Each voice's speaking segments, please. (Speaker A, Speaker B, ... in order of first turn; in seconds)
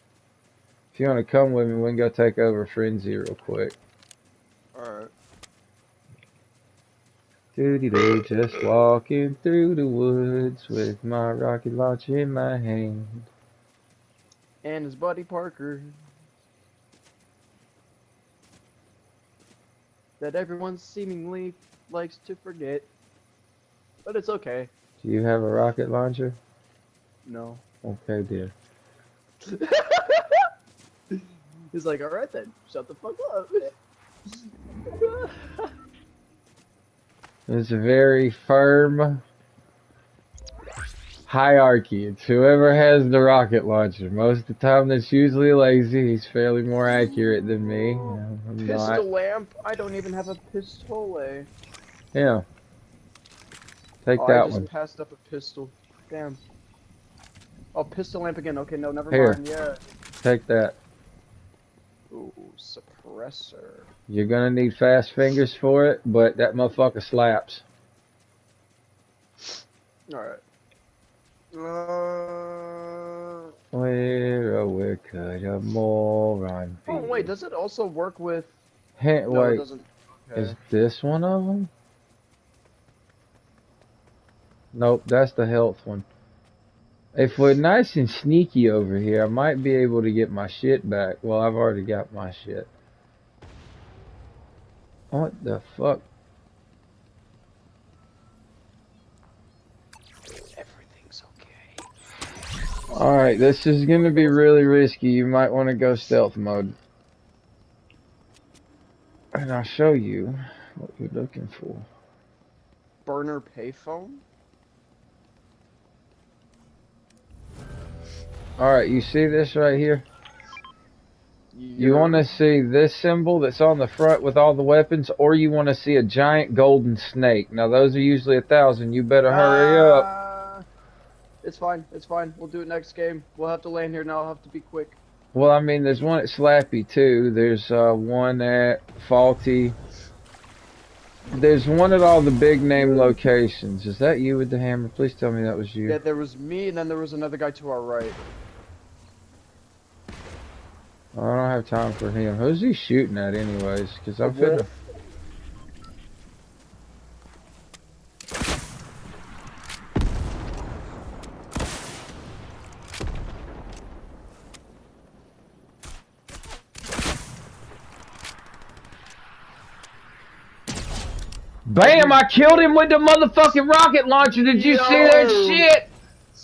Speaker A: 0.9-3.8, 7.5-13.3, 25.0-26.4, 27.8-28.6, 37.5-39.2, 41.3-49.0, 52.1-52.4, 54.0-54.7, 59.1-59.4, 60.2-60.8, 64.1-67.7, 73.7-77.3, 79.0-79.7, 80.3-81.7, 84.7-86.1, 87.2-92.7, 95.1-96.1, 102.9-106.8, 109.3-111.9, 118.6-120.1, 121.8-130.1, 135.3-139.8, 141.3-146.0, 151.2-154.7, 171.7-175.9
Speaker B: 4.7-5.1, 14.6-16.0, 20.2-22.9, 24.1-24.7, 27.2-27.6, 29.5-30.5, 31.7-33.8, 34.9-35.7, 48.6-51.5, 54.2-56.4, 57.7-59.8, 62.1-63.9, 70.1-70.4, 71.5-73.5, 76.9-78.5, 79.3-80.5, 100.5-101.9, 102.9-104.7, 113.0-114.2, 121.5-122.3, 129.3-130.6, 131.4-135.0, 142.8-143.0, 145.8-148.3, 154.2-154.7, 171.8-172.7, 174.3-175.7